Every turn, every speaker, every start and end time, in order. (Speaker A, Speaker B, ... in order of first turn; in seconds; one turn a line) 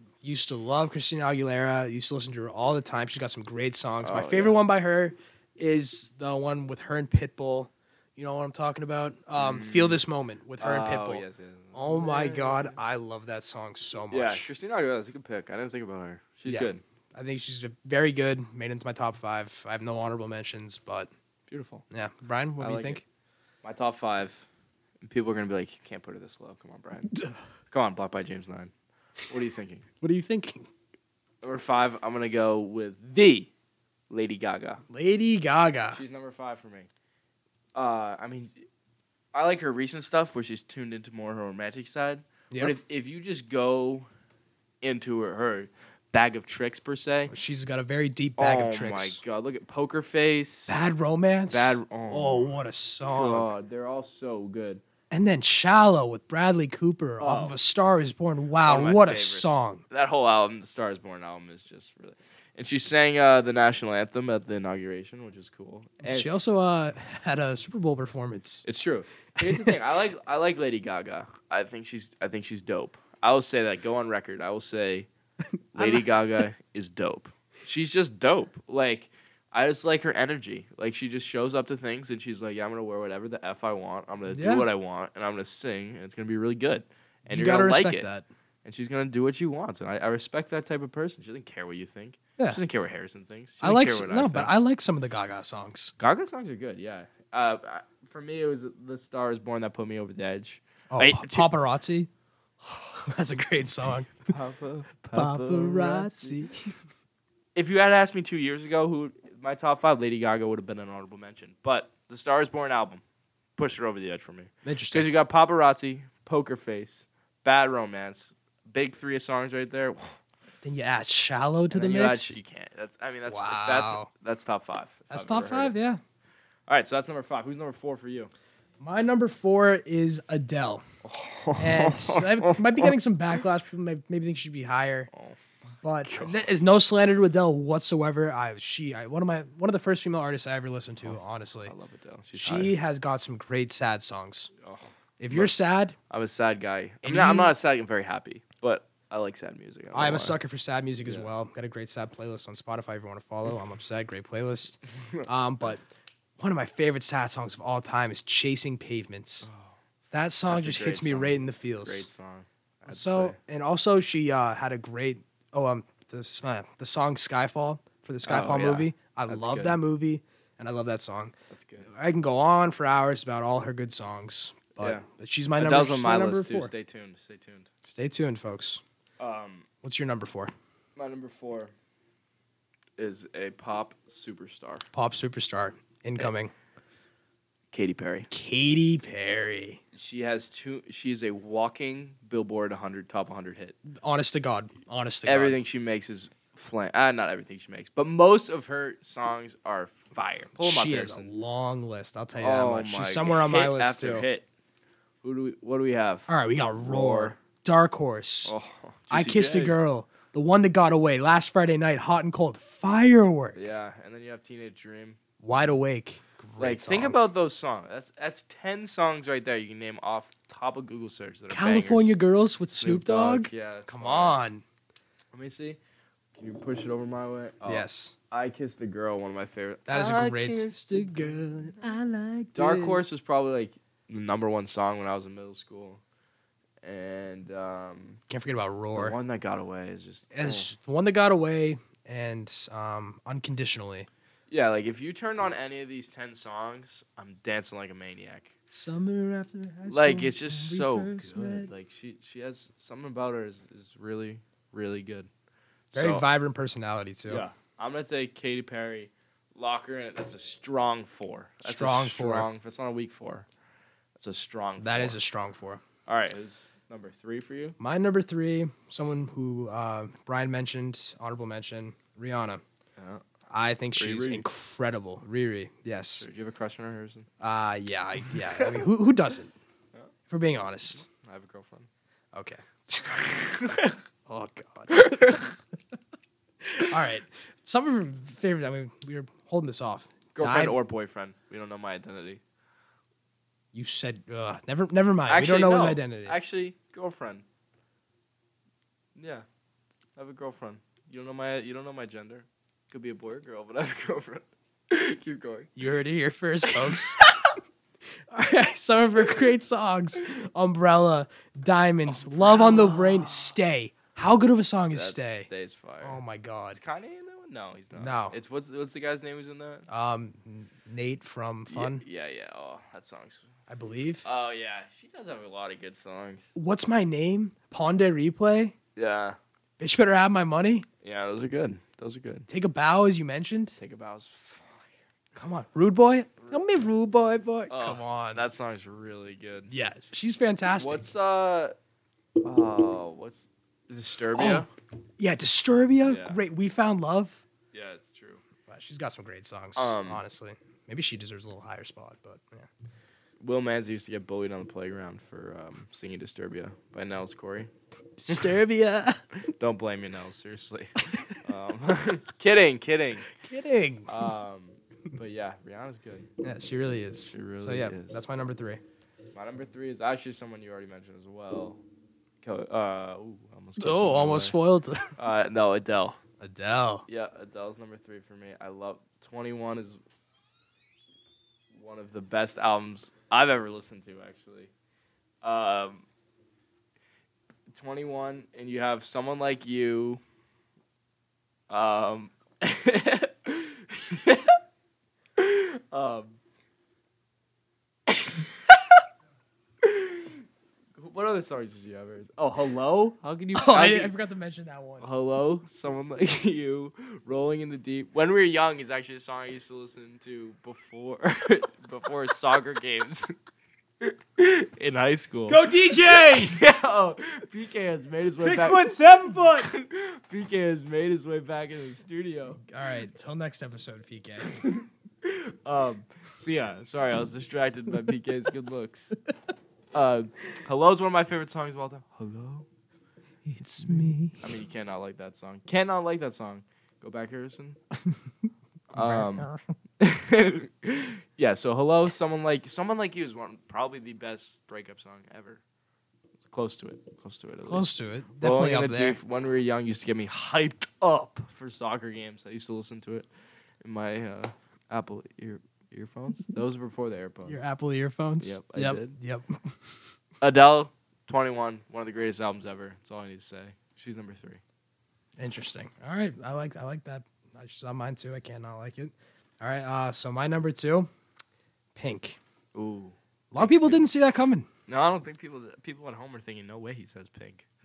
Speaker A: 0.2-14.5
Speaker B: 4.0-4.6
Speaker B: 9.3-10.0
Speaker B: 10.6-12.8
Speaker B: 14.1-16.8
Speaker A: 16.4-21.1
Speaker B: 21.5-21.8
Speaker A: 21.9-23.0
Speaker B: 22.6-23.0
Speaker B: 23.6-24.4
Speaker B: 25.0-27.1
Speaker A: 27.1-27.4
Speaker B: 27.7-28.7
Speaker B: 29.3-29.9
Speaker A: 30.0-30.7
Speaker B: 31.4-33.5
Speaker B: 34.1-34.8
Speaker A: 34.9-36.0
Speaker B: 35.9-36.9
Speaker B: 37.7-38.5
Speaker B: 39.3-44.1
Speaker B: 44.8-47.3
Speaker A: 47.3-49.2
Speaker B: 48.4-50.7
Speaker A: 50.7-53.5
Speaker B: 51.5-54.8
Speaker A: 55.1-59.8
Speaker B: 57.2-57.6
Speaker B: 58.6-66.3
Speaker A: 66.0-68.7
Speaker B: 68.6-75.1
Speaker A: 69.3-69.8
Speaker B: 75.7-88.1
Speaker A: 75.7-76.1
Speaker A: 84.3-84.7
Speaker A: 87.3-88.2
Speaker B: 88.6-94.5
Speaker A: 93.6-95.9
Speaker B: 96.0-101.5
Speaker A: 100.9-102.1
Speaker A: 103.0-104.3
Speaker B: 104.3-106.4
Speaker A: 105.1-106.8
Speaker B: 107.5-113.0
Speaker B: 113.5-120.2
Speaker A: 114.6-115.1
Speaker A: 120.6-122.3
Speaker B: 121.7-125.7
Speaker A: 123.3-124.1
Speaker A: 125.1-126.0
Speaker B: 126.7-128.3
Speaker A: 128.8-130.8
Speaker B: 131.0-132.9
Speaker A: 131.6-135.1
Speaker B: 135.1-136.4
Speaker A: 135.8-141.7
Speaker B: 141.0-142.7
Speaker A: 142.4-144.5
Speaker B: 144.6-145.5
Speaker A: 145.2-146.0
Speaker B: 146.1-150.4
Speaker A: 147.0-147.5
Speaker A: 149.9-155.8
Speaker A: 156.4-159.5
Speaker B: 159.4-159.8
Speaker A: 160.1-162.1
Speaker B: 160.5-163.4
Speaker A: 162.9-171.3
Speaker B: 168.2-169.8
Speaker B: 171.5-171.9
Speaker A: 171.8-176.7
Speaker B: 174.8-175.0
Speaker B: 175.6-177.7
Speaker A: 177.8-178.8
Speaker B: 179.2-179.7
Speaker A: 179.8-180.5
Speaker B: 180.9-181.7
Speaker B: 183.0-184.9
Speaker A: 184.9-186.5
Speaker B: 187.7-188.3
Speaker A: 188.3-189.8
Speaker B: 189.9-193.8
Speaker A: 193.9-195.6
Speaker B: 195.2-201.3
Speaker A: 200.6-204.2
Speaker B: 202.4-204.4
Speaker B: 205.2-207.4
Speaker A: 206.3-208.5
Speaker B: 208.4-209.8
Speaker A: 209.1-213.7
Speaker B: 213.5-215.2
Speaker A: 215.4-217.2
Speaker B: 216.6-222.1
Speaker A: 221.5-224.6
Speaker B: 222.8-224.4
Speaker B: 225.3-225.8
Speaker B: 226.4-231.7
Speaker A: 227.6-228.1
Speaker A: 229.9-233.0
Speaker B: 232.5-236.0
Speaker B: 236.8-238.2
Speaker A: 238.3-239.2
Speaker B: 238.9-240.7
Speaker A: 240.3-244.1
Speaker B: 244.5-248.5
Speaker A: 248.7-251.7
Speaker B: 249.9-255.3
Speaker B: 255.9-256.2
Speaker A: 255.9-257.4
Speaker B: 257.3-263.5
Speaker A: 261.6-262.5
Speaker B: 264.1-265.2
Speaker A: 264.8-265.8
Speaker B: 266.1-267.8
Speaker A: 267.8-272.6
Speaker B: 273.0-273.2
Speaker A: 273.5-276.3
Speaker B: 273.9-274.4
Speaker B: 276.2-277.3
Speaker A: 277.4-279.5
Speaker B: 278.5-278.8
Speaker A: 280.3-281.1
Speaker B: 281.0-281.9
Speaker A: 282.3-285.5
Speaker B: 283.4-284.0
Speaker B: 284.9-285.5
Speaker A: 286.6-290.8
Speaker B: 290.3-292.4
Speaker A: 293.7-296.4
Speaker B: 295.3-297.4
Speaker B: 299.1-299.4
Speaker B: 300.1-305.7
Speaker A: 305.8-307.2
Speaker B: 306.7-307.5
Speaker A: 308.3-315.5
Speaker B: 312.1-313.5
Speaker B: 314.9-316.2
Speaker A: 316.0-316.8
Speaker B: 316.7-319.9
Speaker A: 317.9-318.4
Speaker A: 319.9-322.0
Speaker B: 321.7-323.5
Speaker A: 323.7-324.2
Speaker B: 324.2-326.5
Speaker A: 326.5-328.7
Speaker B: 328.9-329.4
Speaker A: 329.8-330.9
Speaker B: 331.0-332.5
Speaker A: 332.5-333.8
Speaker B: 333.8-334.9
Speaker A: 335.3-338.4
Speaker B: 337.7-339.7
Speaker A: 339.7-341.1
Speaker B: 340.7-341.8
Speaker B: 342.4-344.7
Speaker A: 344.3-344.7
Speaker A: 345.2-347.4
Speaker B: 346.0-346.4
Speaker B: 347.7-348.4
Speaker A: 348.7-352.7
Speaker B: 349.8-350.2
Speaker B: 353.4-357.7
Speaker A: 358.2-359.2
Speaker B: 359.4-363.3
Speaker A: 361.1-361.4
Speaker A: 363.3-364.1
Speaker B: 364.1-366.3
Speaker A: 366.4-368.8
Speaker B: 367.3-368.2
Speaker B: 369.3-371.8
Speaker B: 372.4-374.6
Speaker A: 373.8-375.1
Speaker B: 375.2-376.2
Speaker A: 376.4-377.0
Speaker B: 377.1-380.0
Speaker B: 381.7-384.7
Speaker B: 385.4-386.1
Speaker B: 387.7-390.2
Speaker B: 391.7-394.6
Speaker B: 395.4-396.4
Speaker B: 398.1-398.9
Speaker B: 399.8-400.4
Speaker B: 401.0-404.1
Speaker A: 403.5-405.1
Speaker B: 405.0-413.3
Speaker B: 414.0-418.9
Speaker C: 415.5-416.6
Speaker C: 418.4-419.7
Speaker B: 419.6-422.6
Speaker A: 422.6-424.6
Speaker B: 425.2-429.1
Speaker B: 429.9-432.7
Speaker A: 433.4-434.6
Speaker B: 434.4-437.8
Speaker B: 438.9-439.5
Speaker A: 438.9-439.7
Speaker B: 440.0-445.6
Speaker B: 446.4-447.9
Speaker A: 447.7-449.2
Speaker B: 448.4-453.3
Speaker B: 453.8-457.6
Speaker A: 457.4-459.9
Speaker B: 458.4-459.1
Speaker B: 460.4-464.6
Speaker A: 465.4-471.1
Speaker A: 471.9-472.4
Speaker B: 472.7-474.1
Speaker A: 473.5-474.7
Speaker B: 474.9-477.6